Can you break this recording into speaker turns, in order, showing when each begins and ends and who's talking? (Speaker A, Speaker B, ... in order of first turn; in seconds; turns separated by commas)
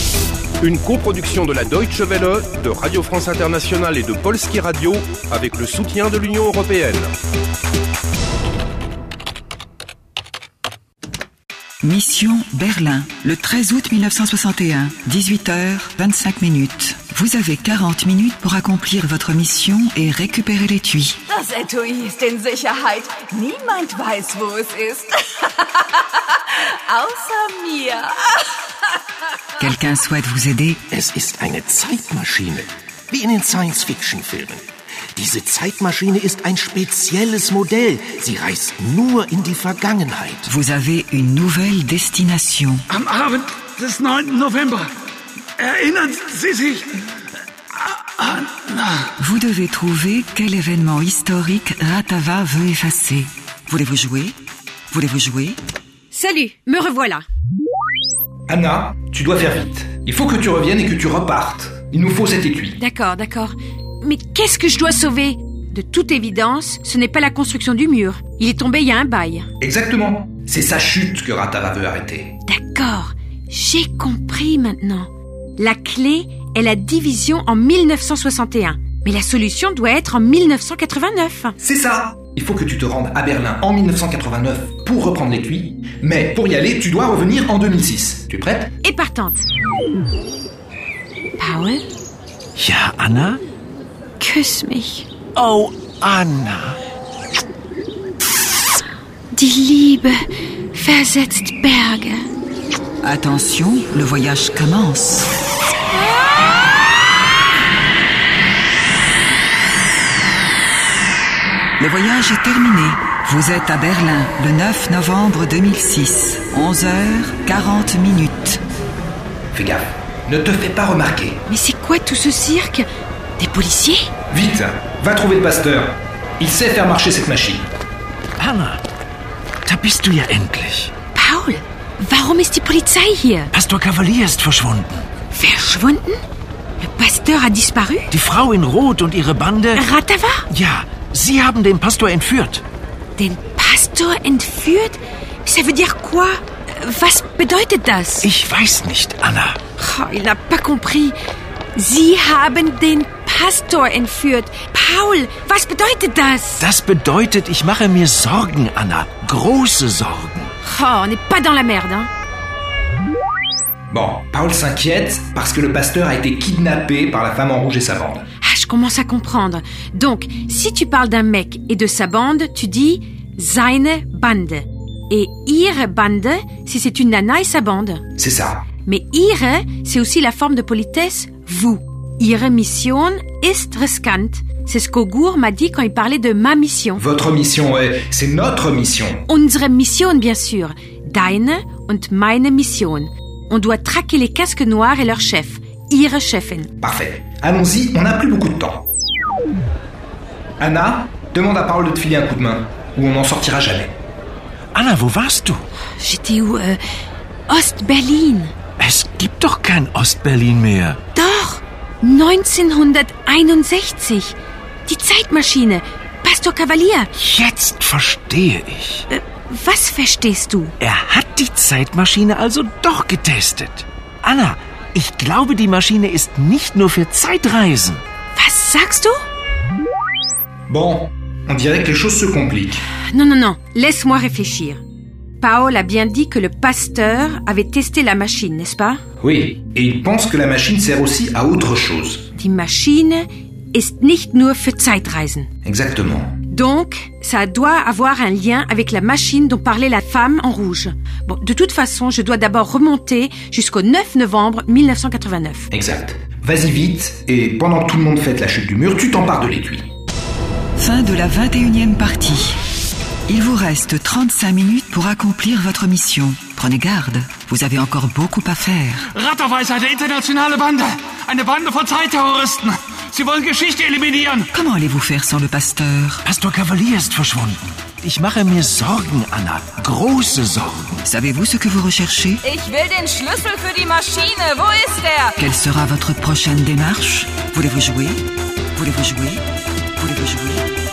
Speaker A: 0.6-7.1, Speaker B: 11.8-21.2, Speaker C: 21.3-25.8, Speaker C: 26.9-28.1, Speaker B: 29.6-30.8, Speaker D: 30.9-40.5, Speaker B: 40.5-42.8, Speaker E: 42.9-44.9, Speaker E: 45.6-47.0, Speaker E: 47.9-49.0, Speaker B: 49.2-54.4, Speaker B: 54.9-55.6, Speaker F: 56.1-57.2, Speaker G: 58.5-62.8, Speaker F: 62.8-69.5, Speaker G: 69.6-72.3, Speaker F: 72.5-81.6, Speaker G: 81.6-88.7, Speaker F: 88.8-89.4, Speaker F: 91.4-91.8, Speaker D: 92.6-93.4, Speaker F: 94.2-95.0, Speaker D: 95.3-96.8, Speaker F: 99.3-102.3, Speaker B: 103.0-105.3, Speaker B: 111.8-118.6, Speaker G: 119.5-121.4, Speaker F: 121.5-122.9, Speaker F: 123.4-124.1, Speaker G: 124.3-127.7, Speaker D: 128.4-128.8, Speaker D: 129.7-130.9, Speaker F: 131.1-133.5, Speaker D: 133.5-135.1, Speaker F: 135.3-136.2, Speaker F: 136.8-138.1, Speaker D: 138.1-139.8, Speaker F: 139.7-140.4, Speaker D: 140.5-142.6, Speaker F: 143.2-148.3, Speaker D: 148.2-149.6, Speaker F: 149.8-151.2, Speaker F: 151.8-156.6, Speaker D: 156.6-160.5, Speaker F: 160.6-162.1, Speaker G: 163.9-168.2, Speaker F: 168.4-178.0, Speaker G: 178.2-178.7, Speaker F: 178.8-187.0, Speaker G: 187.0-189.2, Speaker F: 189.3-196.7, Speaker G: 196.8-198.9, Speaker G: 200.6-203.9, Speaker D: 204.7-205.6, Speaker F: 206.0-206.8, Speaker F: 207.5-208.5, Speaker D: 208.8-211.0, Speaker F: 211.1-214.3, Speaker F: 214.9-217.1, Speaker D: 217.2-219.0, Speaker F: 219.1-220.7, Speaker D: 220.8-228.0, Speaker F: 228.3-229.2, Speaker G: 230.7-232.8, Speaker F: 233.1-234.8, Speaker F: 235.4-239.0, Speaker G: 239.2-242.3, Speaker F: 242.4-245.5, Speaker G: 245.6-246.3, Speaker F: 246.5-255.7, Speaker G: 255.7-259.9, Speaker B: 260.8-262.6, Speaker B: 263.3-269.1, Speaker E: 269.1-274.5, Speaker B: 274.5-276.2, Speaker D: 276.2-281.1, Speaker B: 281.0-282.4, Speaker C: 282.4-285.3, Speaker B: 285.4-288.2, Speaker B: 288.7-289.4, Speaker B: 289.9-290.7